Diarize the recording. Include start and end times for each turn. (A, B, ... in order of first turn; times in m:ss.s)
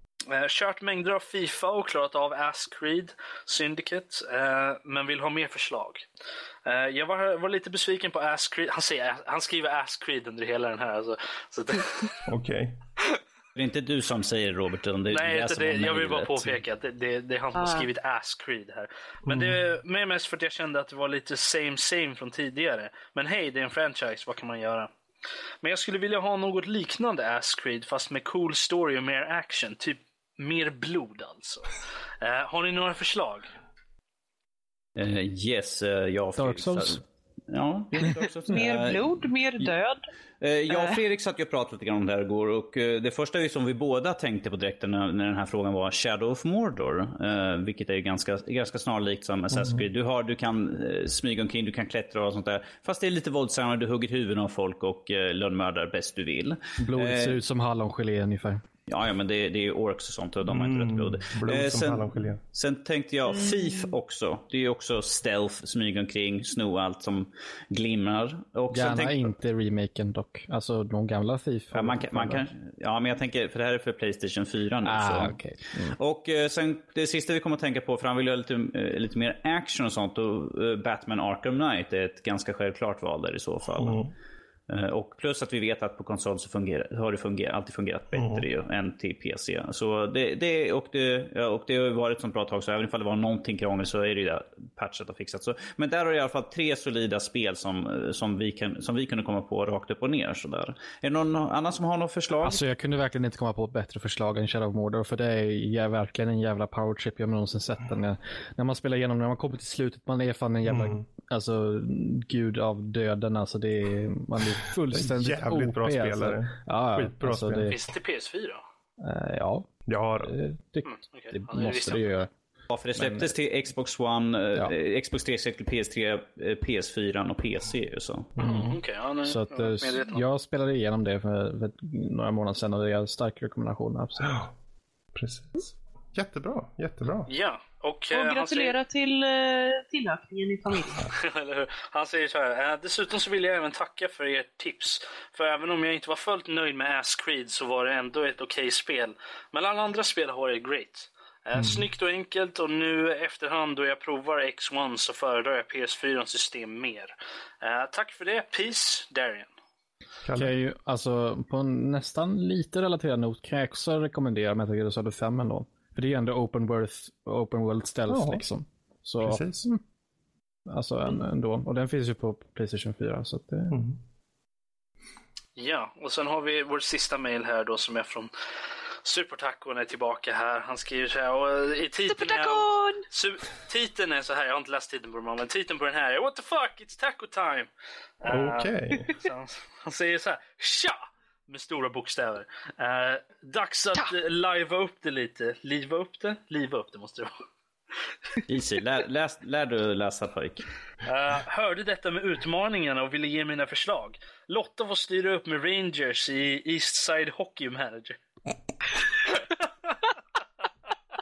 0:00.3-0:06.0 A
0:06.6-0:12.2 A
0:12.2-0:12.8 B
0:13.5-0:16.6 C
0:15.1-0:24.9 A
0:17.6-0:17.8 D
0:19.2-0:19.6 B
0:25.6-0:33.5 A
0:35.0-0:39.7 C
0:36.4-0:37.0 E
0:38.5-0:40.0 D
0:40.4-0:57.4 C
0:40.7-0:41.0 D
0:49.5-0:49.9 B
0:56.8-0:58.6 E
0:58.9-1:09.3 C
1:00.4-1:02.4 B
1:03.3-1:03.9 D
1:08.7-1:12.4 E
1:11.7-1:24.0 C
1:14.8-1:16.0 E
1:23.7-1:24.1 B
1:24.7-1:42.6 C
1:28.1-1:28.5 B
1:42.4-1:57.8 E
1:50.6-1:51.0 B
1:54.9-1:57.8 B
1:57.7-1:58.6 A
1:59.0-1:59.7 E
1:59.9-2:00.4 B
2:00.2-2:02.3 E
2:00.8-2:02.2 A
2:02.7-2:08.3 C
2:03.0-2:03.3 E
2:08.4-2:10.2 A
2:08.4-2:14.4 E
2:14.2-2:14.5 B
2:15.1-2:17.3 B
2:17.3-2:18.8 A
2:18.1-2:21.1 D
2:21.0-2:39.5 A
2:31.6-2:31.9 B
2:40.2-2:40.5 B
2:40.3-2:49.8 E
2:48.1-2:48.4 B
2:49.2-2:49.7 B
2:50.7-2:53.8 E
2:53.7-2:54.0 B
2:55.6-2:58.3 A
2:59.0-3:07.7 A
3:02.1-3:03.0 D
3:08.2-3:17.4 A
3:08.2-3:09.1 B
3:18.5-3:20.7 C
3:21.0-3:28.2 A
3:29.2-3:30.0 A